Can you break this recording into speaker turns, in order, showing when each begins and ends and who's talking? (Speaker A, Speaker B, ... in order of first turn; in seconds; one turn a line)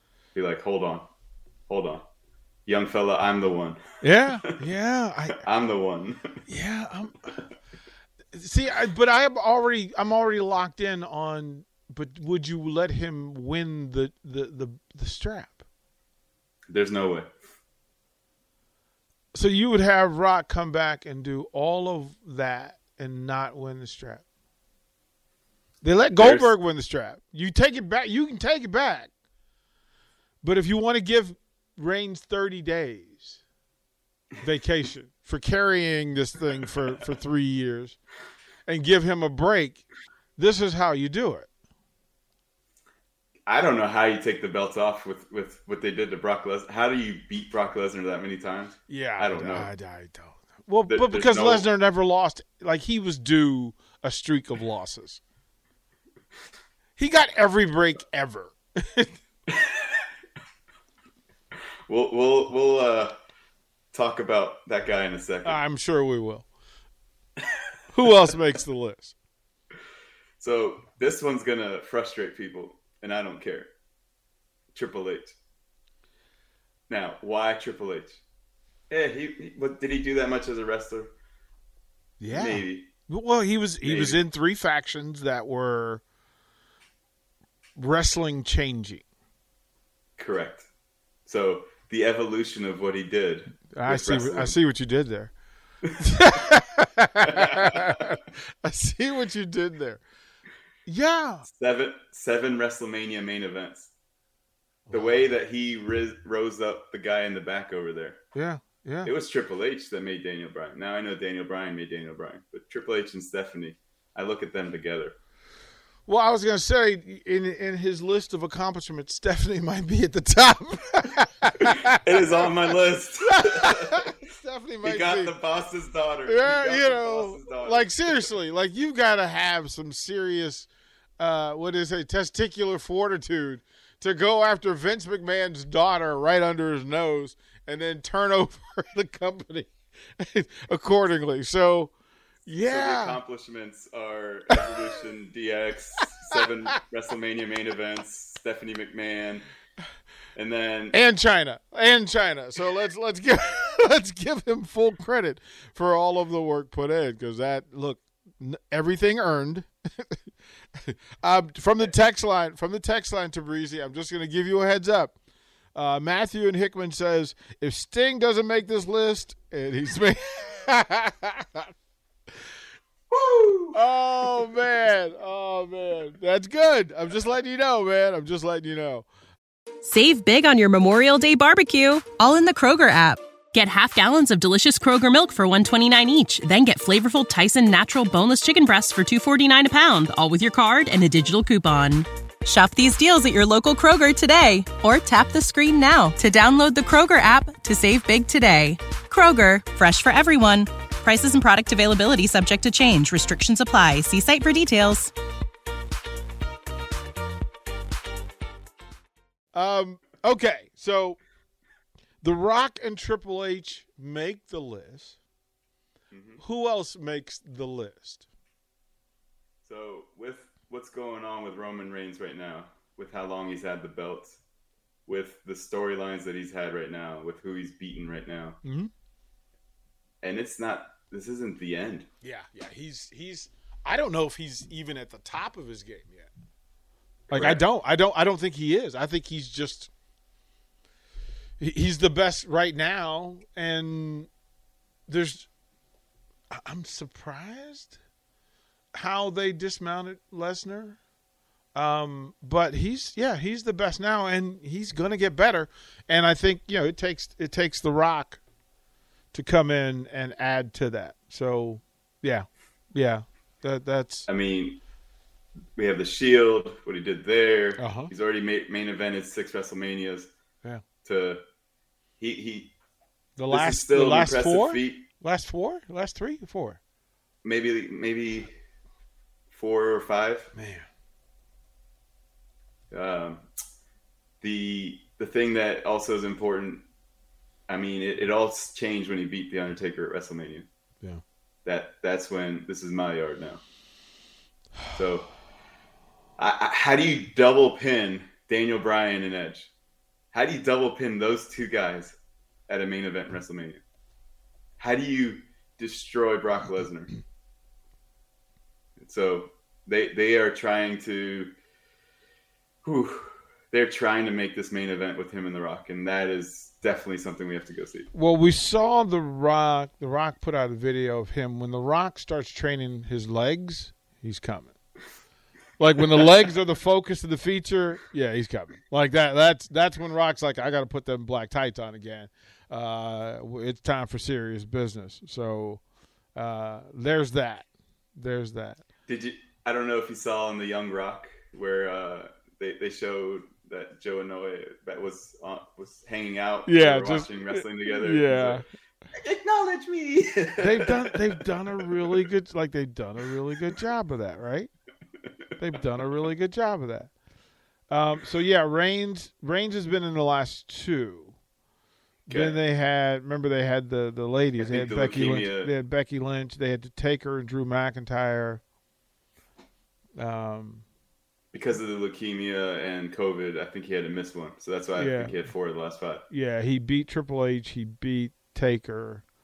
Speaker A: 0.3-1.1
Speaker A: 1.7-2.1
Speaker A: 2.7-4.3
Speaker B: 4.0-5.4
Speaker A: 5.4-6.3
Speaker B: 6.5-7.4
Speaker B: 8.3-15.6
Speaker A: 16.7-17.3
Speaker B: 19.3-24.2
Speaker B: 25.8-29.1
Speaker A: 26.2-26.5
Speaker B: 30.4-33.4
Speaker B: 34.4-38.0
Speaker B: 38.7-39.9
Speaker B: 40.4-41.5
Speaker A: 43.5-49.7
Speaker B: 48.9-55.2
Speaker A: 50.9-51.7
Speaker B: 57.0-59.1
Speaker A: 59.5-60.0
Speaker A: 61.9-63.1
Speaker A: 63.9-65.6
Speaker B: 65.5-66.5
Speaker B: 67.9-69.2
Speaker A: 70.4-73.7
Speaker A: 74.7-75.3
Speaker A: 76.9-78.2
Speaker A: 78.9-81.1
Speaker B: 82.2-86.0
Speaker A: 82.3-82.9
Speaker A: 83.8-84.2
Speaker B: 87.8-89.0
Speaker A: 90.2-90.7
Speaker A: 91.3-94.6
Speaker B: 93.7-95.3
Speaker A: 95.8-96.1
Speaker B: 96.0-100.0
Speaker A: 97.2-98.2
Speaker B: 100.9-101.5
Speaker A: 101.5-103.9
Speaker A: 104.9-108.2
Speaker B: 108.3-109.1
Speaker A: 109.0-115.2
Speaker B: 116.1-122.5
Speaker A: 121.9-124.1
Speaker B: 123.4-125.3
Speaker A: 124.8-128.2
Speaker B: 126.3-141.9
Speaker B: 142.5-143.2
Speaker A: 142.5-149.4
Speaker A: 150.4-151.0
Speaker B: 150.9-160.2
Speaker B: 160.8-165.2
Speaker B: 165.8-171.7
Speaker A: 173.1-173.8
Speaker B: 173.7-179.1
Speaker C: 179.8-205.1
Speaker B: 209.5-211.2
Speaker B: 212.2-215.2
Speaker A: 216.1-216.4
Speaker B: 216.4-218.3
Speaker A: 219.6-224.4
Speaker A: 225.1-228.6
Speaker B: 228.6-228.9
Speaker A: 230.2-232.1
Speaker B: 232.2-236.3
Speaker B: 237.3-239.9
Speaker A: 237.3-237.7
Speaker B: 241.6-244.3
Speaker B: 245.1-245.5
Speaker B: 246.5-248.0
Speaker B: 248.9-251.0
Speaker B: 251.8-258.4
Speaker B: 259.3-264.3
Speaker A: 264.3-264.8
Speaker A: 265.8-270.3
Speaker B: 267.8-268.1
Speaker A: 271.0-271.4
Speaker A: 272.2-272.7
Speaker B: 273.4-276.8
Speaker A: 273.5-275.1
Speaker A: 277.4-278.5
Speaker A: 279.5-280.5
Speaker B: 280.6-280.9
Speaker A: 282.9-283.5
Speaker A: 284.4-286.9
Speaker A: 287.7-290.7
Speaker A: 291.6-293.6
Speaker A: 294.9-295.3
Speaker A: 296.4-299.7
Speaker A: 300.3-302.2
Speaker A: 302.7-303.8
Speaker A: 304.8-307.2
Speaker A: 309.0-311.5
Speaker A: 312.8-318.1
Speaker B: 318.1-324.7
Speaker B: 325.8-335.8
Speaker B: 336.4-338.9
Speaker A: 339.1-351.2
Speaker B: 346.7-348.6
Speaker B: 350.6-354.7
Speaker B: 355.6-357.1
Speaker B: 357.9-361.4
Speaker B: 362.3-368.6
Speaker A: 362.3-362.6
Speaker A: 364.6-365.7
Speaker B: 370.2-370.9
Speaker A: 371.5-376.2
Speaker B: 375.0-375.4
Speaker B: 376.3-379.2